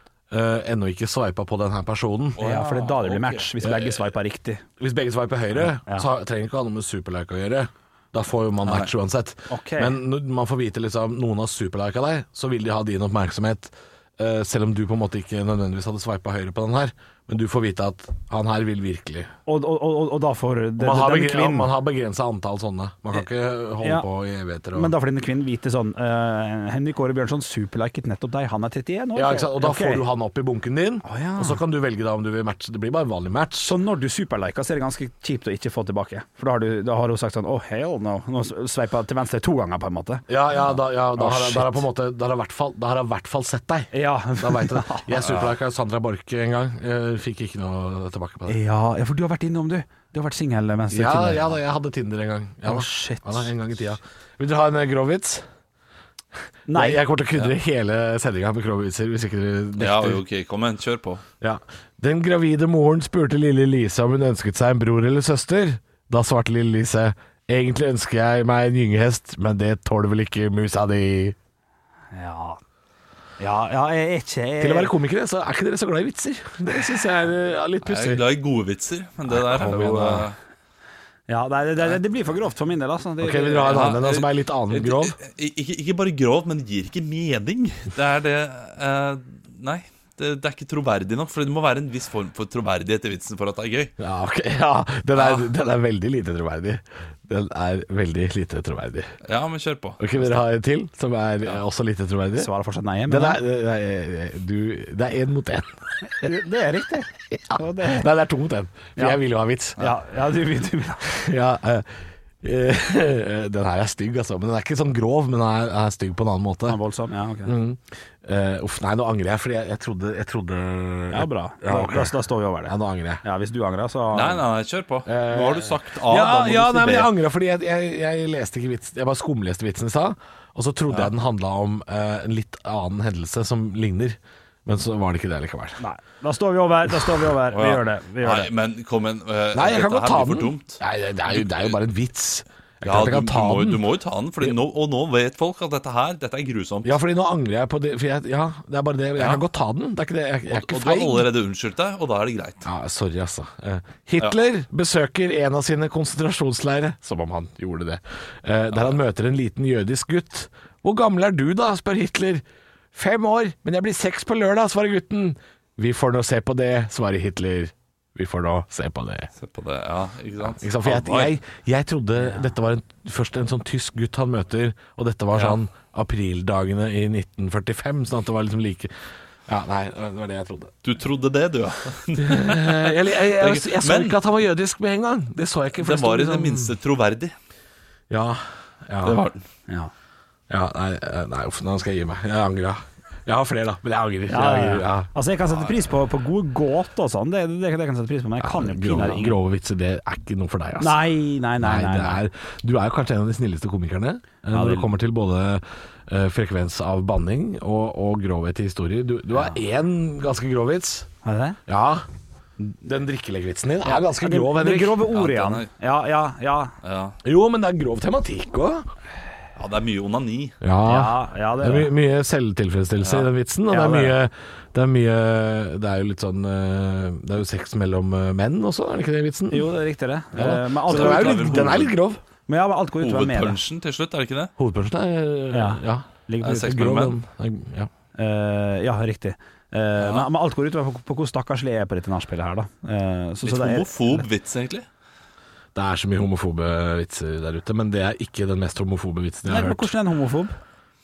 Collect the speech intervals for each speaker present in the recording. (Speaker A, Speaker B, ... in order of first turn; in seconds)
Speaker A: 0.3-2.4, 3.6-4.0, 4.8-19.3, 20.8-24.9, 29.1-33.7, 40.3-48.6, 50.9-55.5, 56.7-60.2, 61.4-71.4, 74.6-78.2, 79.3-80.3, 83.2-85.2, 94.0-99.1, 100.0-102.5, 103.1-106.3, 107.3-109.8, 111.1-116.8, 117.5-122.1, 122.7-123.2, 125.1-135.8, 139.5-143.8, 146.8-151.3, 152.7-169.3, 170.4-178.9, 179.5-180.7, 182.2-186.7, 188.1-189.2, 190.5-195.1, 198.4-201.0, 201.6-211.1, 211.7-212.1, 212.8-215.0, 217.2-218.9, 220.6-229.7, 230.3-232.2, 234.6-237.9, 245.8-249.9
Speaker B: 2.4-3.5, 8.7-8.9, 45.2-45.5, 59.8-61.2, 77.8-80.4, 83.7-93.9, 95.2-95.5, 99.2-100.4, 124.1-127.1, 137.5-141.8, 142.8-147.0, 149.2-149.4, 150.5-152.7, 169.4-171.4, 180.8-184.2, 185.8-187.3, 189.0-189.4, 195.5-195.9, 215.1-215.7, 216.8-217.2, 219.6-220.6, 223.0-223.3, 230.9-231.9, 233.0-234.5, 236.4-237.2, 240.0-240.3, 243.4-244.9
Speaker C: 2.4-4.7, 5.6-6.1, 9.5-10.0, 19.5-21.7, 23.8-24.1, 24.7-30.0, 31.0-31.6, 33.6-41.8, 43.9-45.2, 48.5-51.6, 52.7-53.5, 56.7-57.0, 72.1-72.6, 73.4-74.9, 81.3-84.0, 102.4-103.4, 106.2-108.1, 109.8-111.1, 116.7-117.5, 121.1-124.4, 135.8-138.5, 194.3-199.4, 200.8-202.2, 204.5-204.9, 211.2-211.6, 213.9-216.7, 220.8-221.9, 223.7-224.2, 229.5-231.8, 232.5-233.6, 235.5-236.8, 238.2-244.3, 249.5-250.6